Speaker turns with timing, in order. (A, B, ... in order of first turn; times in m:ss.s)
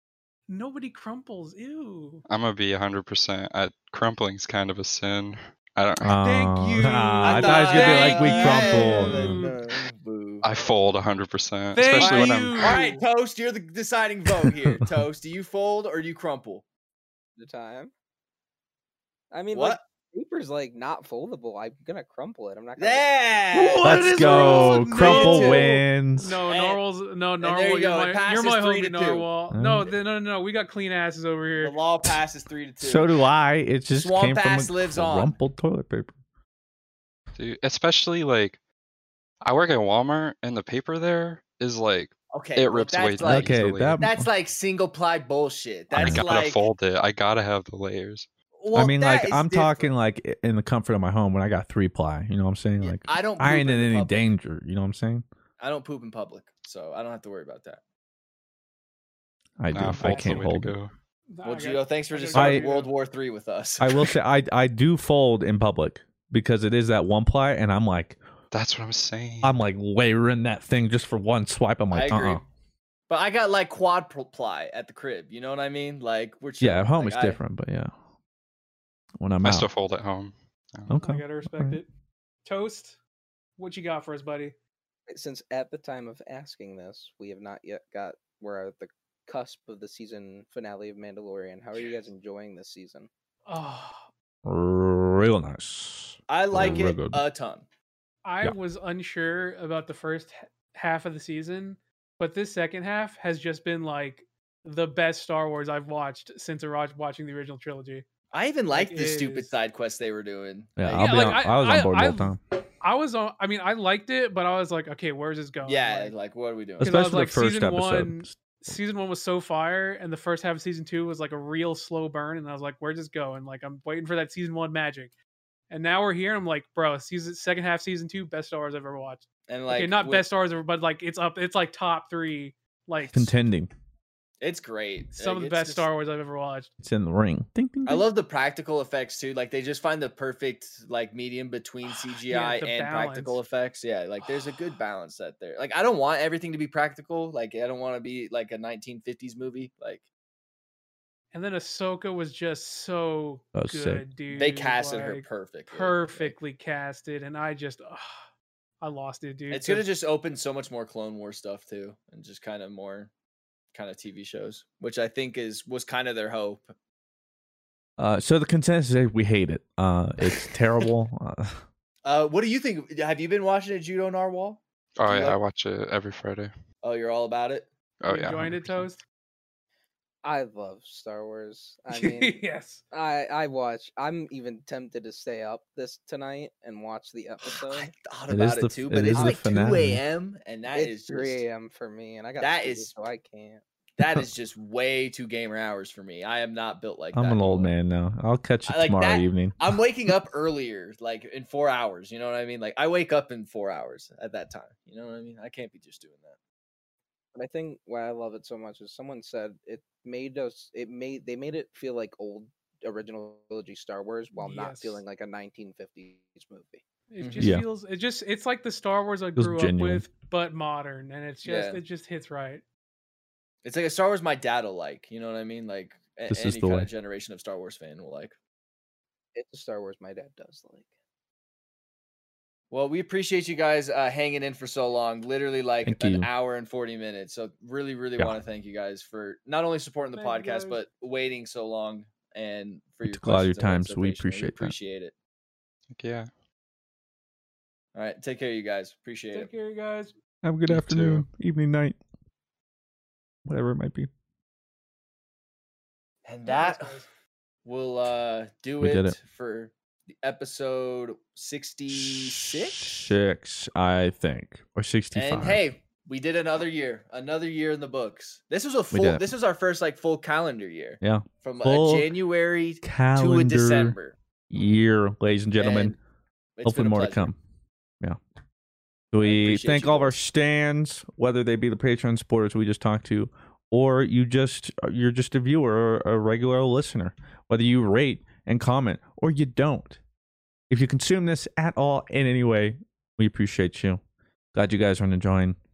0:00.5-0:02.2 A
0:02.3-0:06.1 B
0:06.0-0:09.4 C
0:06.0-0:09.6 A
0:07.2-0:10.5 D
0:10.4-0:12.8 B
0:11.7-0:13.0 A
0:12.0-0:16.6 D
0:17.4-0:17.9 E
0:19.3-0:23.0 E
0:19.5-0:19.8 D
0:22.8-0:25.8 D
0:23.5-0:31.8 A
0:23.8-0:26.3 C
0:26.4-0:26.8 D
0:27.4-0:29.3 D
0:29.5-0:29.9 C
0:31.6-0:33.1 D
0:32.8-0:36.1 C
0:33.9-0:35.3 D
0:37.4-0:38.6 B
0:39.4-0:44.0 B
0:42.3-0:46.6 D
0:43.2-0:44.3 C
0:45.9-0:48.3 B
0:46.0-0:46.2 C
0:48.6-0:49.9 D
0:48.7-0:55.2 C
0:52.8-0:54.3 D
0:55.6-0:57.8 D
0:59.6-1:00.7 C
0:59.7-1:00.9 B
1:00.0-1:00.4 A
1:01.3-1:02.9 A
1:01.4-1:04.2 D
1:02.3-1:02.6 C
1:03.8-1:08.2 C
1:08.5-1:09.5 B
1:09.4-1:12.4 C
1:11.9-1:12.4 D
1:13.1-1:17.4 D
1:16.6-1:17.9 C
1:19.2-1:19.7 C
1:19.4-1:20.9 B
1:20.9-1:21.8 C
1:20.9-1:21.8 A
1:22.4-1:23.0 A
1:23.6-1:24.5 A
1:25.1-1:33.1 E
1:33.5-1:34.1 A
1:34.4-1:37.2 C
1:36.3-1:37.6 D
1:38.2-1:48.0 A
1:48.3-1:51.2 D
1:48.7-1:49.5 A
1:50.8-1:52.4 C
1:50.9-1:56.1 A
1:55.6-1:56.9 D
1:56.8-1:58.4 C
1:56.8-2:05.1 A
2:05.7-2:13.4 A
2:09.5-2:10.2 D
2:13.1-2:13.7 C
2:14.4-2:15.9 D
2:15.1-2:16.7 A
2:16.8-2:18.1 C
2:17.8-2:30.0 D
2:21.9-2:23.4 A
2:24.2-2:24.8 A
2:31.3-2:38.2 A
2:33.5-2:34.0 C
2:34.3-2:36.3 D
2:38.8-2:39.9 A
2:39.5-2:43.1 D
2:43.7-2:46.7 D
2:48.0-2:51.6 C
2:52.0-2:55.4 D
2:55.0-2:56.5 B
2:56.8-2:57.7 D
2:58.0-2:58.9 B
2:58.0-2:59.0 A
3:00.2-3:07.9 E
3:01.9-3:02.8 A
3:07.6-3:11.4 D
3:08.3-3:10.0 C
3:09.1-3:09.4 E
3:10.7-3:13.6 E
3:12.4-3:12.9 D
3:14.0-3:17.7 D
3:17.1-3:19.6 C
3:18.6-3:26.4 D
3:27.3-3:36.8 E
3:34.4-3:35.0 A
3:37.1-3:42.6 A
3:37.2-3:37.5 D
3:37.4-3:37.6 C
3:39.4-3:40.0 C
3:41.4-3:41.8 D
3:43.6-3:48.3 D
3:46.3-3:46.9 C
3:49.3-3:50.9 E
3:52.7-4:05.1 D
3:55.8-3:56.3 C
4:00.2-4:00.8 A
4:03.0-4:04.7 C
4:05.9-4:06.3 B
4:07.9-4:09.5 D
4:09.3-4:10.1 A
4:10.4-4:12.0 C
4:10.7-4:11.2 B
4:13.4-4:14.1 C
4:16.2-4:17.0 D
4:16.4-4:17.1 A
4:17.6-4:23.0 D
4:18.8-4:19.2 C
4:22.0-4:25.7 C
4:25.1-4:34.2 D
4:28.9-4:29.2 C
4:31.0-4:32.1 C
4:32.8-4:34.0 C
4:34.5-4:36.0 C
4:35.6-4:36.0 D
4:36.6-4:37.3 D
4:36.6-4:37.4 C
4:39.1-4:50.0 C
4:39.2-4:40.2 D
4:50.7-4:54.0 C
4:54.5-4:55.6 C